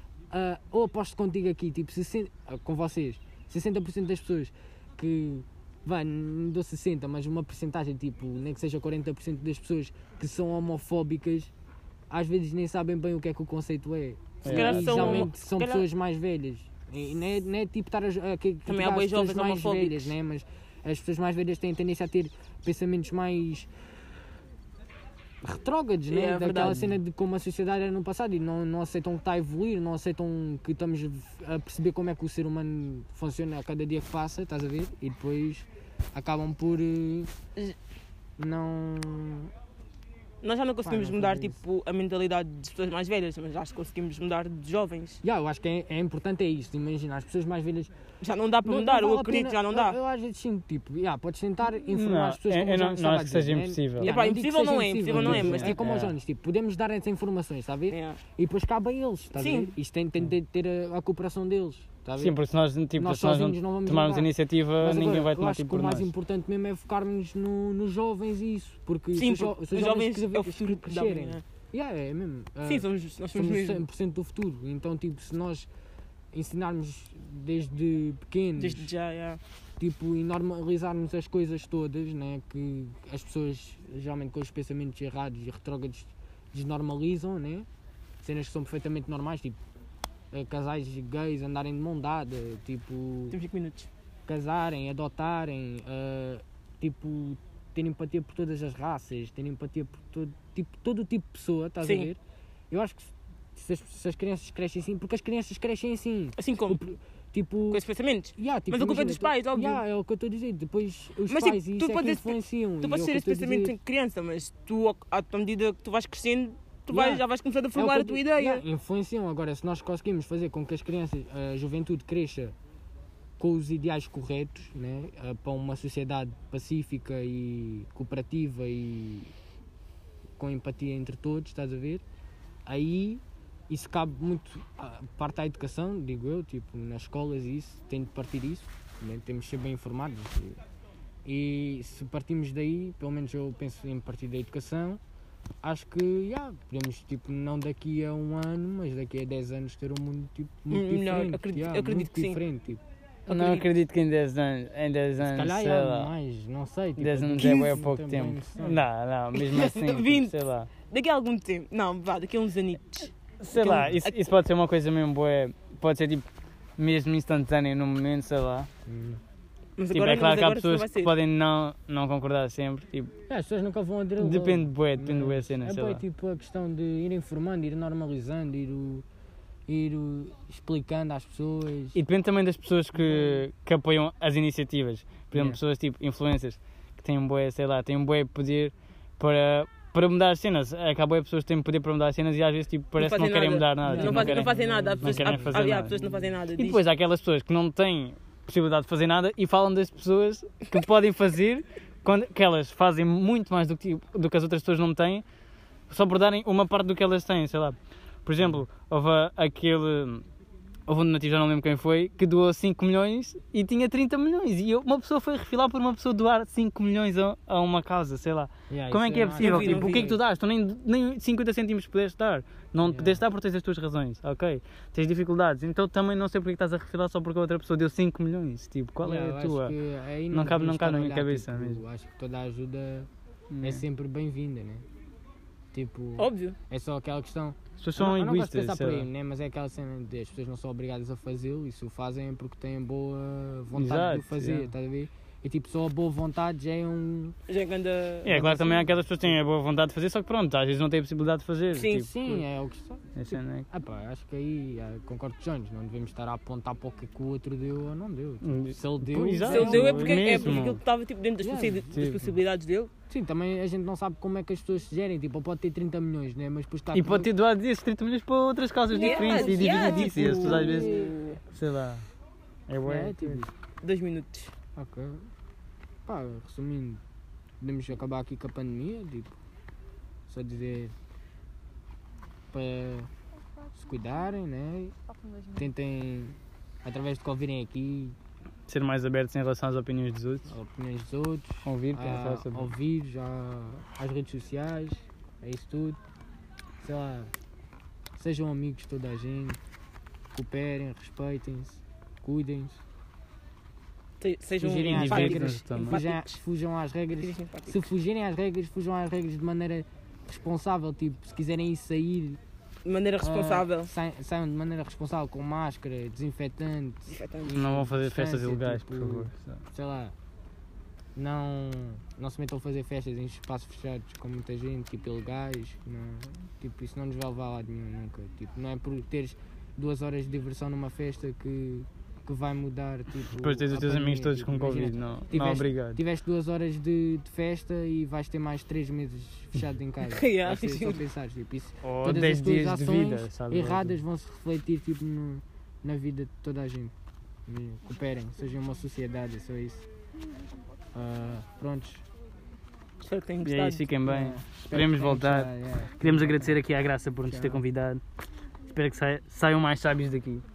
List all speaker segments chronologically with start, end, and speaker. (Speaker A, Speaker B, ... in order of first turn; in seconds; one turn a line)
Speaker A: 0.3-11.5
Speaker A: 12.1-23.7
Speaker B: 14.4-15.3
Speaker C: 14.5-15.8
Speaker C: 18.7-20.1
Speaker A: 25.4-37.3
Speaker C: 26.1-26.9
Speaker A: 38.4-39.5
Speaker C: 40.4-45.2
Speaker A: 40.8-41.6
Speaker A: 45.2-47.9
Speaker C: 48.2-50.0
Speaker A: 48.6-62.4
Speaker B: 51.8-54.1
Speaker C: 54.0-55.8
Speaker B: 55.1-56.1
Speaker C: 57.9-58.2
Speaker C: 59.4-59.7
Speaker B: 62.2-66.1
Speaker A: 63.0-75.7
Speaker C: 69.1-71.4
Speaker C: 72.7-73.8
Speaker A: 76.3-78.9
Speaker C: 78.6-79.4
Speaker A: 79.8-87.7
Speaker A: 88.2-89.6
Speaker A: 90.3-93.3
Speaker C: 93.3-93.9
Speaker A: 94.3-102.2
Speaker C: 101.8-102.1
Speaker A: 102.7-107.8
Speaker C: 106.4-106.8
Speaker C: 107.7-109.8
Speaker A: 108.3-113.8
Speaker C: 111.3-118.6
Speaker A: 116.9-117.2
Speaker A: 117.7-122.5
Speaker A: 123.4-129.3
Speaker A: 130.4-132.0
Speaker A: 132.7-140.6
Speaker A: 141.2-145.0
Speaker A: 145.6-152.8
Speaker C: 150.7-152.4
Speaker C: 153.3-153.7
Speaker B: 153.3-156.1
Speaker A: 155.2-158.8
Speaker B: 157.0-160.7
Speaker C: 159.3-160.3
Speaker C: 160.9-164.2
Speaker B: 163.4-166.3
Speaker A: 163.6-164.0
Speaker B: 166.8-168.7
Speaker A: 168.8-169.2
Speaker C: 169.8-171.1
Speaker B: 169.9-173.1
Speaker A: 173.3-179.0
Speaker B: 174.2-176.0
Speaker A: 179.7-182.0
Speaker B: 181.9-196.0
Speaker A: 183.0-183.4
Speaker A: 185.3-185.6
Speaker C: 193.0-196.8
Speaker A: 193.8-196.3
Speaker B: 196.5-205.2
Speaker B: 205.9-210.2
Speaker B: 210.9-229.7
Speaker A: 218.7-220.2
Speaker C: 219.4-220.1
Speaker A: 222.8-223.2
Speaker A: 229.0-233.1
Speaker B: 230.3-231.8
Speaker B: 233.5-233.8
Speaker A: 233.6-234.8
Speaker A: 235.7-247.3
Speaker C: 236.2-236.6
Speaker B: 237.8-239.1
Speaker B: 243.7-244.7
Speaker C: 247.5-248.5
Speaker B: 248.2-252.4
Speaker A: 248.2-249.3
Speaker C: 251.7-252.1
Speaker A: 251.9-253.1
Speaker B: 253.2-253.7
Speaker A: 253.7-260.6
Speaker B: 258.4-260.8
Speaker C: 259.4-262.9
Speaker A: 261.4-262.1
Speaker B: 261.9-262.3
Speaker A: 263.1-267.3
Speaker B: 266.9-271.0
Speaker C: 268.9-271.4
Speaker A: 268.9-271.1
Speaker B: 271.5-272.0
Speaker B: 272.7-273.4
Speaker A: 272.8-273.5
Speaker C: 273.8-274.5
Speaker A: 274.8-275.3
Speaker A: 276.1-277.0
Speaker A: 277.6-279.4
Speaker A: 280.3-280.9
Speaker A: 282.5-283.1
Speaker A: 283.7-288.1
Speaker B: 288.7-290.5
Speaker A: 290.5-296.0
Speaker B: 291.6-292.7
Speaker A: 296.8-297.3
Speaker A: 298.2-299.6
Speaker A: 300.3-302.8
Speaker C: 304.2-306.4
Speaker A: 304.6-312.4
Speaker B: 304.9-306.0
Speaker C: 307.2-307.9
Speaker C: 312.8-313.9
Speaker A: 313.2-320.1
Speaker C: 317.1-317.5
Speaker B: 317.5-319.6
Speaker A: 321.1-346.9
Speaker B: 333.3-336.0
Speaker C: 340.0-341.0
Speaker B: 341.8-344.0
Speaker A: 347.4-349.9
Speaker A: 350.9-352.0
Speaker C: 353.0-353.9
Speaker B: 353.4-358.0
Speaker A: 354.0-356.6
Speaker A: 357.2-357.6
Speaker B: 358.7-360.4